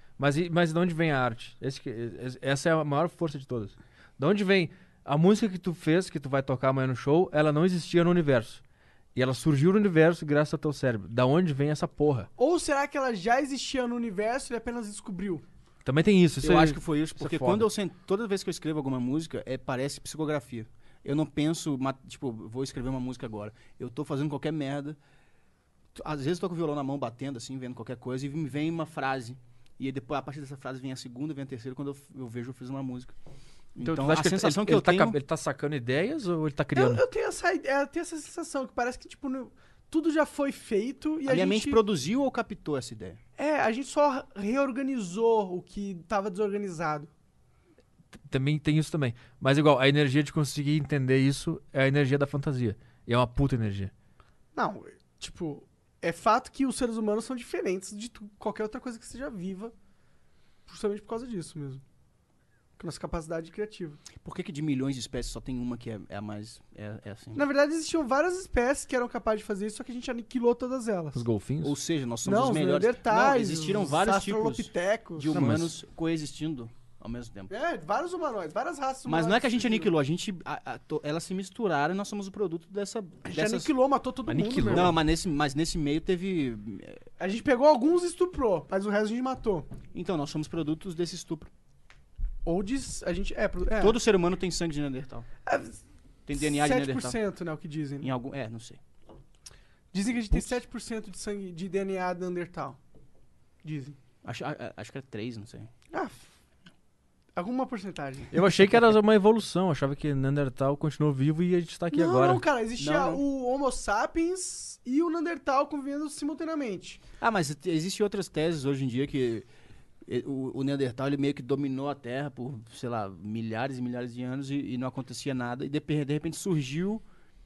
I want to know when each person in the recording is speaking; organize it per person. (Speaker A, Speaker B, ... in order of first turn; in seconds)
Speaker A: 0.2-8.6, 9.2-12.3, 15.8-17.7, 33.8-37.0, 48.3-53.9, 71.2-71.8, 75.3-75.8, 84.3-85.0, 108.3-112.4
Speaker B: 12.4-15.4, 36.8-41.8, 43.4-47.1, 54.5-59.7, 60.7-61.8, 62.8-64.0, 67.3-71.2, 72.2-75.3, 77.5-79.9, 83.2-85.0, 87.2-89.7, 92.5-94.0, 95.5-95.8, 96.4-98.1, 99.9-102.8, 103.6-104.0, 105.9-106.3, 107.4-108.4, 111.9-117.0
Speaker C: 16.4-25.0, 25.9-33.1, 33.8-35.2, 41.3-43.2, 64.2-67.4, 71.6-77.5, 79.1-83.7, 84.7-87.0, 89.9-91.5, 93.7-95.3, 96.3-97.2, 98.0-98.8, 104.2-105.7, 112.8-113.2, 117.2-119.5, 120.1-127.0